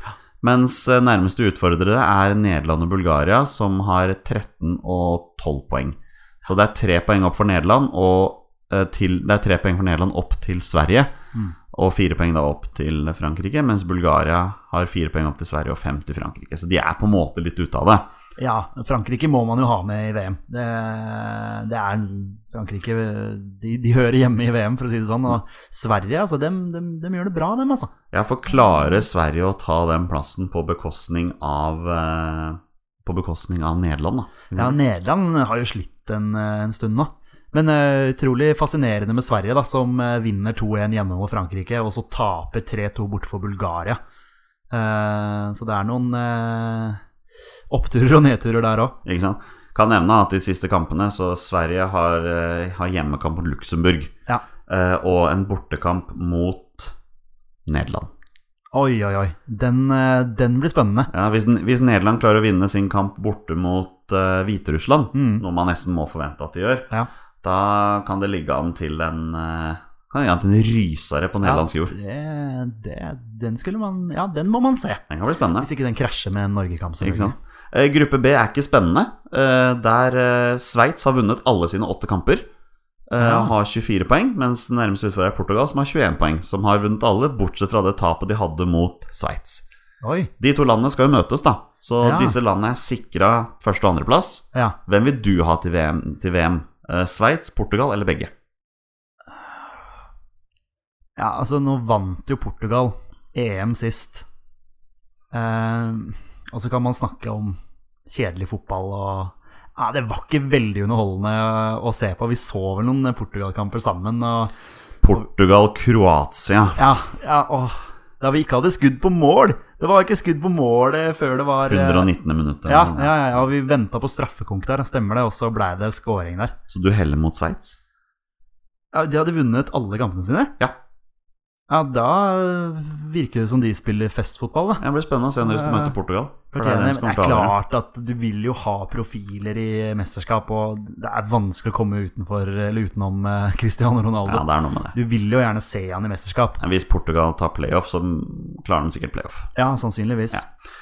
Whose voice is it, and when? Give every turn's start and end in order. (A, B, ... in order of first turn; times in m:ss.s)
0:00.4-0:11.1 A
0:11.7-0:18.1 A
0:18.4-0:27.9 B
0:28.1-0:34.8 A
0:34.5-0:44.0 B
0:44.7-0:47.0 B
0:47.7-0:49.0 B
0:49.0-0:54.1 A
0:54.7-0:56.9 A
0:57.6-0:58.1 A
0:58.7-1:01.1 B
1:01.1-1:06.9 A
1:05.1-1:05.4 B
1:07.4-1:11.9 A
1:11.4-1:15.0 B
1:15.1-1:15.7 A
1:15.6-1:17.4 B
1:17.0-1:22.5 A
1:23.1-1:29.6 A
1:23.2-1:23.5 B
1:30.0-1:30.3 B
1:30.4-1:38.3 A
1:32.0-1:32.4 B
1:41.2-1:44.2 B
1:45.3-1:54.5 B
1:55.0-1:56.8 A
1:56.8-2:02.1 B
2:01.7-2:03.1 A
2:02.6-2:06.5 B
2:06.7-2:07.8 A
2:08.9-2:10.5 B
2:11.7-2:14.8 B
2:14.8-2:17.5 A
2:15.4-2:15.9 B
2:16.5-2:26.6 B
2:24.2-2:24.9 A
2:26.6-2:29.5 A
2:29.6-2:30.4 B